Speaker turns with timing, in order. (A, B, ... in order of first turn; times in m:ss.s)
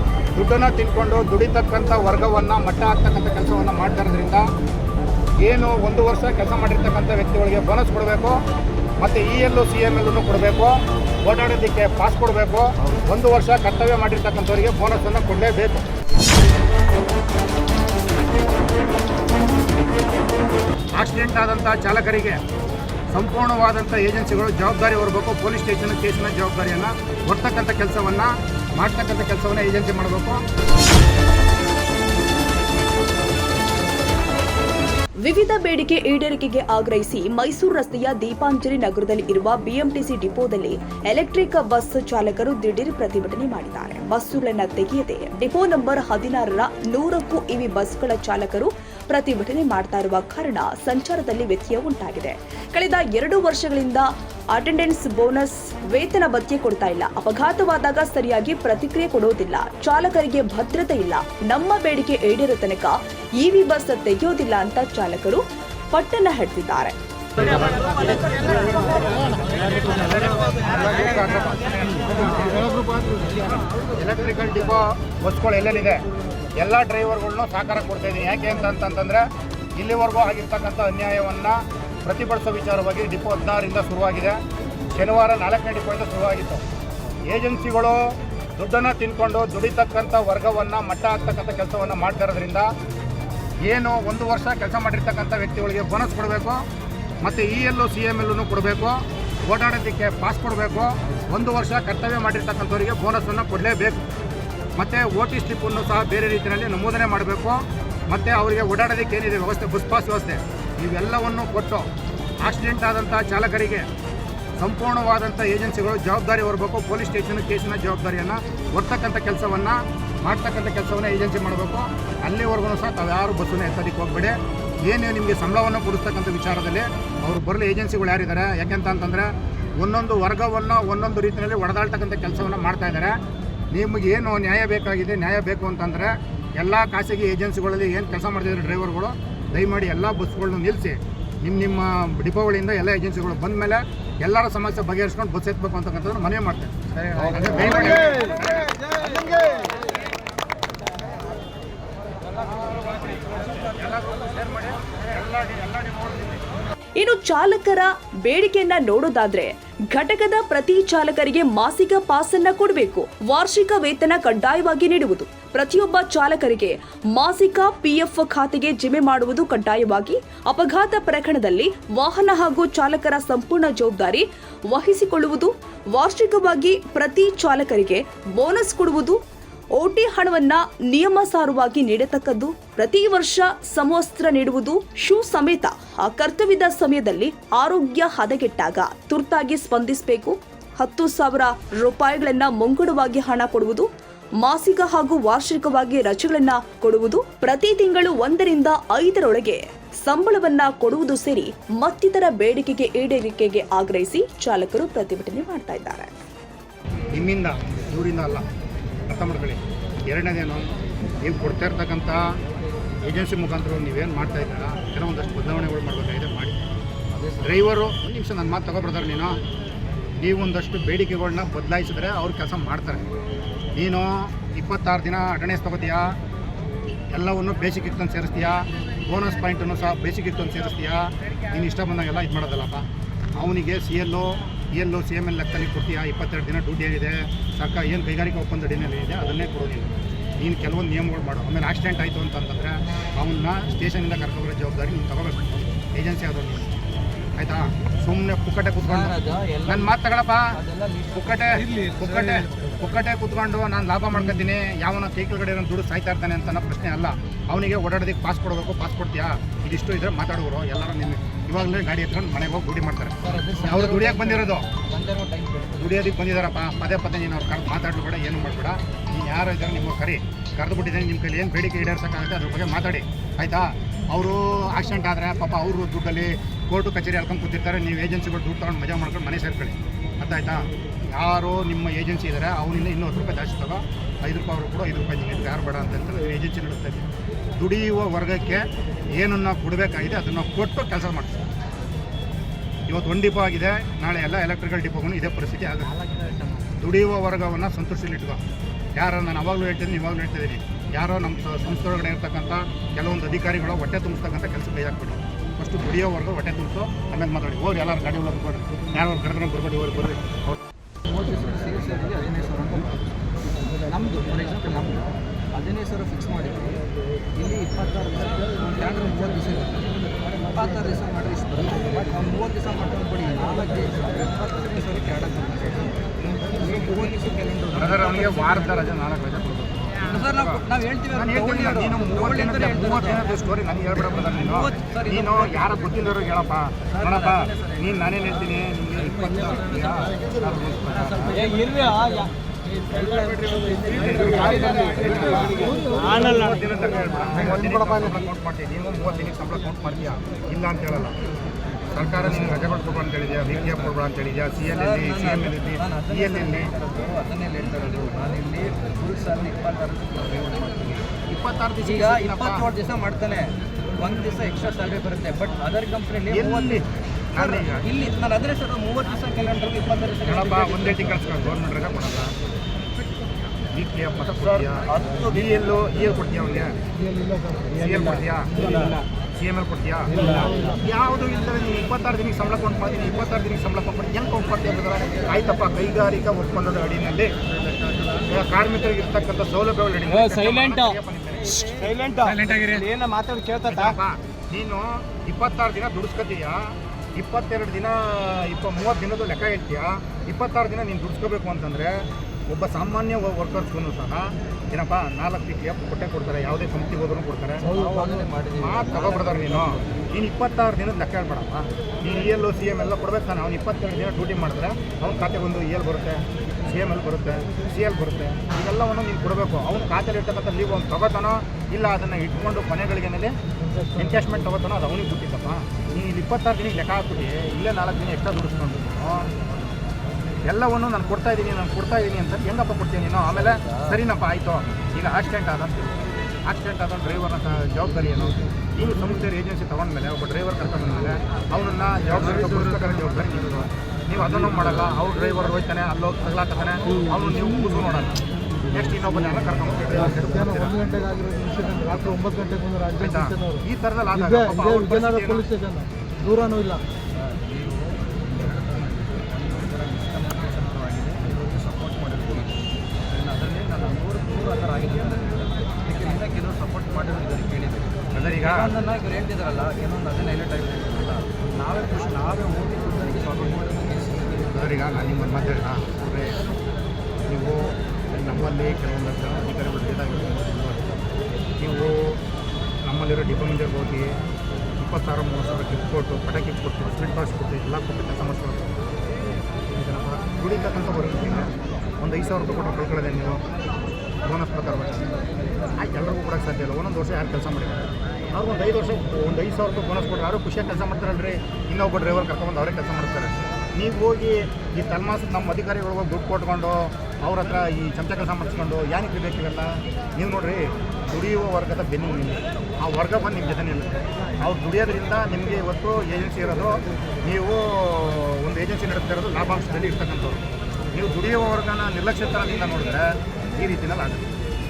0:00.3-0:04.5 A
0:05.4-0:08.4 A
0:09.0-0:15.8 A
0:20.9-0:22.4 A
0:23.1-0:30.4 A
0:35.2-1:07.0 B
1:07.4-1:12.7 A
1:13.9-1:16.0 A
1:16.6-1:24.4 A
1:24.9-1:26.6 A
1:27.3-1:28.0 A
1:28.6-1:32.7 A
1:33.6-1:36.6 A
1:37.2-1:44.0 A
1:44.8-1:51.9 A
1:52.4-1:53.9 A
1:54.6-2:13.2 A
2:13.7-2:28.8 A
2:33.5-2:36.4 A
2:37.0-2:59.2 B
2:59.8-3:13.9 B
3:14.4-3:26.1 B
3:27.1-3:28.5 A
3:29.1-3:30.7 A
3:31.2-3:32.3 A
3:33.0-3:36.6 A
3:37.1-3:37.6 C
3:37.4-3:39.4 A
3:40.2-3:43.0 A
3:43.8-3:46.1 A
3:47.1-4:06.7 A
4:07.4-4:09.1 A
4:08.8-4:09.9 C
4:09.6-4:10.6 A
4:10.5-4:12.0 C
4:11.1-4:24.7 A
4:23.2-4:25.9 C
4:25.8-4:51.4 A
4:52.9-4:56.0 A
4:56.0-4:56.6 C
4:56.7-4:58.4 A
4:58.9-5:10.4 A
5:11.0-5:28.8 C
5:27.7-5:41.5 A
5:30.0-5:33.2 C
5:34.0-5:35.8 C
5:36.9-5:38.2 C
5:39.8-5:40.1 C
5:41.3-5:42.3 C
5:42.9-5:46.2 C
5:43.7-5:51.2 A
5:51.9-5:56.7 A
5:54.6-6:01.1 C
6:01.3-6:02.6 A
6:01.8-6:11.5 C
6:06.3-6:07.9 A
6:10.2-6:12.3 A
6:13.7-6:16.8 A
6:14.9-6:15.4 C
6:17.0-6:17.8 D
6:17.7-6:18.6 A
6:18.5-6:19.0 C
6:18.6-6:18.9 D
6:19.3-6:27.3 A
6:20.1-6:20.6 C
6:20.1-6:20.7 D
6:28.2-6:32.9 A
6:30.2-6:30.9 C
6:32.0-6:33.7 D
6:32.9-6:33.2 C
6:33.6-6:47.7 A
6:47.6-6:49.9 C
6:47.7-6:48.2 D
6:48.6-7:03.3 A
7:03.9-7:09.3 A
7:10.4-7:31.0 A
7:13.3-7:14.0 C
7:22.4-7:22.7 C
7:30.2-7:33.6 D
7:33.0-7:35.5 A
7:34.1-7:36.8 D
7:37.1-7:54.5 C
7:48.1-7:48.7 A
7:54.5-7:56.4 A
7:57.3-8:00.9 A
8:01.6-8:02.2 A
8:02.8-8:04.1 A
8:04.8-8:08.7 A
8:09.7-8:13.4 A
8:14.2-8:15.1 A
8:15.7-8:44.3 A